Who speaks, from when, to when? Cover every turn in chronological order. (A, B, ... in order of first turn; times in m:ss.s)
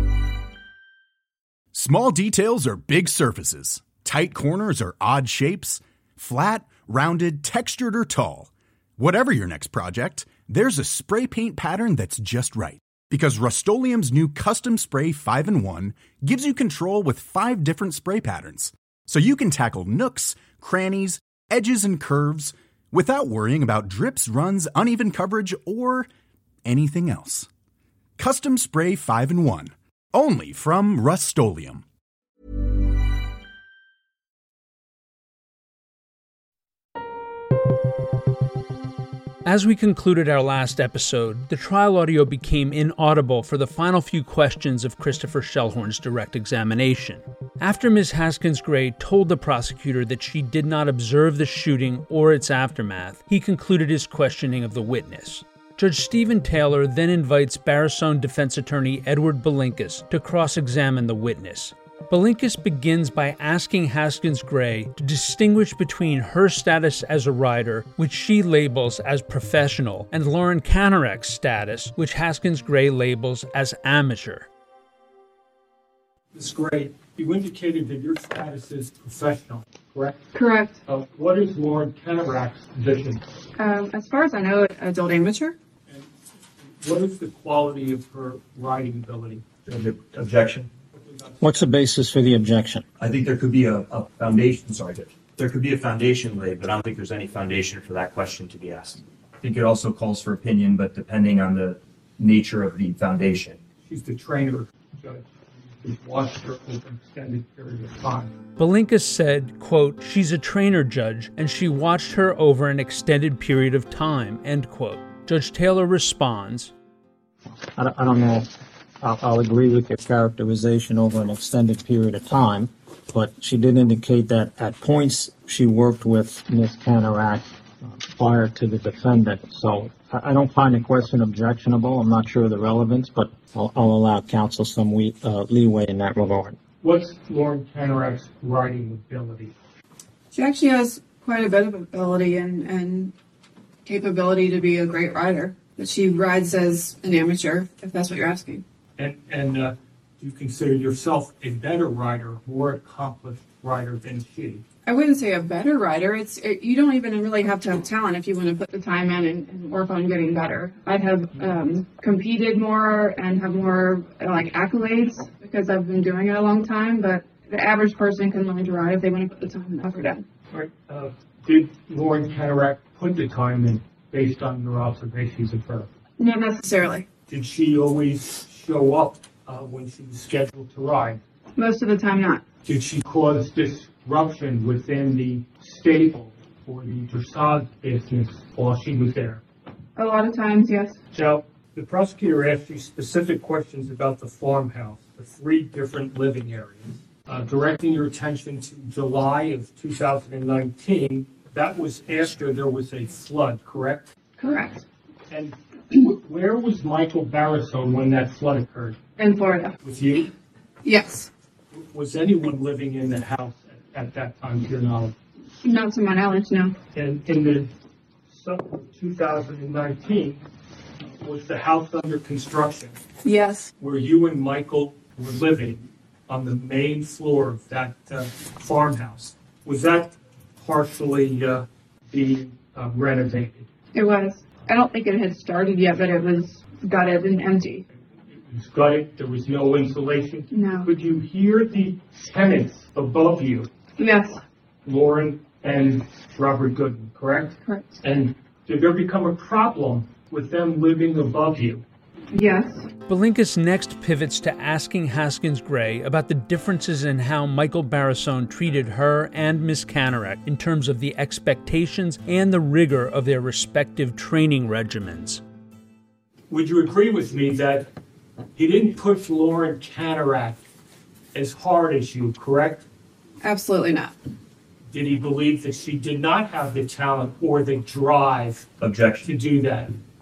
0:01.7-0:26.1 A
0:26.6-0:27.5 A
0:28.2-0:31.8 A
0:39.4-1:14.5 B
1:16.3-1:20.2 C
1:20.3-1:20.8 D
1:20.9-1:23.2 C
1:23.6-1:25.6 D
1:26.6-1:29.5 C
1:29.7-1:30.7 E
1:30.9-1:31.7 C
1:31.4-1:32.9 F
1:33.0-1:43.6 E
1:43.9-1:45.3 C
1:45.8-1:48.3 C
1:48.6-1:56.7 B
1:57.7-1:58.5 F
1:59.0-2:16.6 F
2:16.8-2:19.5 C
2:20.3-2:23.1 D
2:23.9-2:28.6 D
2:29.0-2:34.6 C
2:34.9-2:50.2 D
2:50.5-2:55.9 C
2:56.2-2:57.1 D
2:57.3-3:01.2 C
3:01.6-3:02.4 D
3:02.7-3:09.4 C
3:10.0-3:11.0 D
3:11.1-3:24.1 C
3:24.4-3:24.8 D
3:25.3-3:29.0 C
3:29.2-3:29.8 D
3:29.8-3:30.3 C
3:30.8-3:31.3 D
3:31.7-3:35.1 C
3:35.6-3:36.8 D
3:36.9-3:37.7 C
3:38.3-3:40.4 C
3:41.2-3:43.0 C
3:43.2-3:43.7 D
3:43.8-3:53.7 C
3:53.9-3:57.8 D
3:58.3-4:03.7 C
4:00.5-4:00.9 D
4:04.0-4:04.4 D
4:04.8-4:11.8 C
4:12.3-4:12.8 D
4:13.1-4:25.4 B
4:26.5-4:27.9 C
4:28.6-4:30.6 C
4:31.3-4:32.8 C
4:33.4-4:34.1 D
4:34.9-4:38.7 C
4:38.8-4:39.3 E
4:39.2-4:40.0 C